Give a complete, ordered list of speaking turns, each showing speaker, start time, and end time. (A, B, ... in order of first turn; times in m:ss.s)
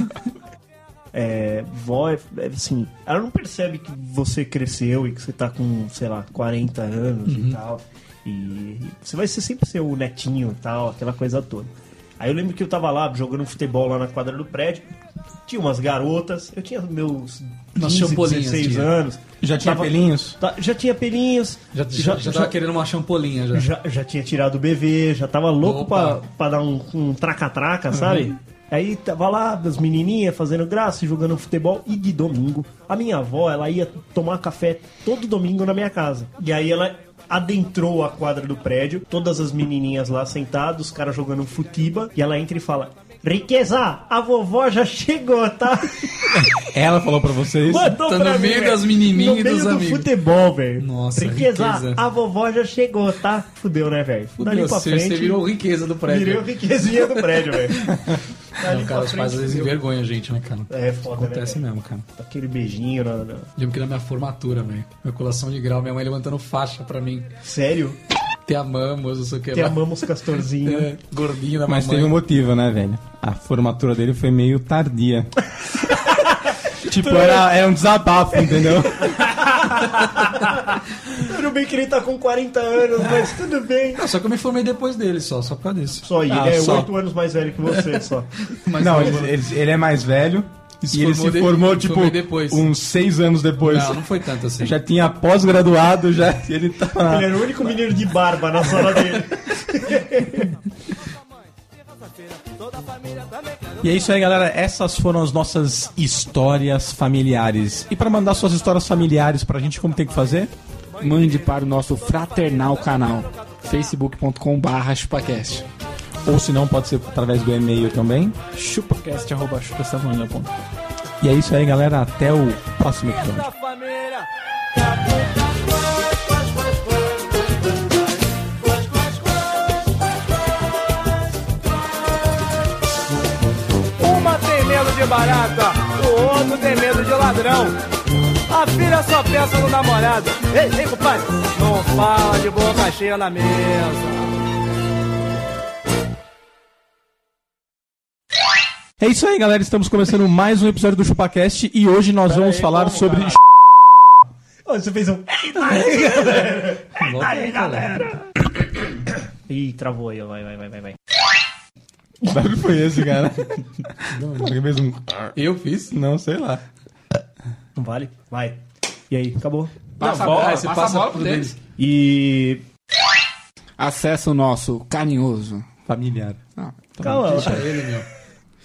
0:01.1-0:14.9 A
0:07.3-0:07.6 B
0:15.5-0:22.6 A
0:17.8-0:18.9 B
0:19.4-0:20.4 C
0:21.7-0:23.7 B
0:23.5-0:46.4 A
0:25.6-0:26.2 B
0:46.4-0:48.0 C
0:47.7-0:55.5 A
0:48.0-0:50.1 B
0:50.8-0:52.0 B
0:54.4-0:56.5 B
0:56.0-0:58.0 A
0:58.6-0:59.8 A
0:58.6-1:02.1 B
1:00.7-1:01.6 A
1:02.2-1:03.5 A
1:03.6-1:07.3 B
1:07.4-1:08.0 A
1:08.5-1:09.8 B
1:09.5-1:10.9 A
1:10.6-1:12.2 B
1:11.7-1:15.3 C
1:16.8-1:19.3 C
1:19.6-1:20.6 A
1:21.2-1:24.0 A
1:24.0-1:26.1 B
1:26.0-1:28.3 A
1:26.3-1:26.9 C
1:28.5-1:29.4 B
1:28.8-1:34.0 C
1:30.8-1:32.7 B
1:33.6-1:34.8 B
1:34.6-1:37.5 C
1:37.1-1:40.5 A
1:43.8-1:50.5 C
1:51.0-1:55.7 D
1:56.2-1:58.4 C
1:58.5-2:00.6 E
2:01.2-2:03.5 C
2:03.3-2:09.9 F
2:14.0-2:17.8 F
2:18.5-2:24.4 F
2:29.0-2:33.4 C
2:32.3-2:33.4 E
2:34.7-2:38.5 A
2:37.0-2:38.0 B
2:39.5-2:41.0 A
2:42.2-2:43.7 C
2:44.1-2:44.5 B
2:44.4-2:45.3 C
2:45.4-2:45.9 B
2:45.9-2:46.6 C
2:47.8-2:49.8 A
2:50.0-2:51.6 D
2:50.0-2:50.6 E
2:50.0-2:51.6 B
2:51.8-2:52.6 A
2:53.8-2:55.7 D
2:55.9-2:56.4 C
2:57.0-2:57.6 C
2:57.0-2:57.7 A
2:57.0-2:58.1 B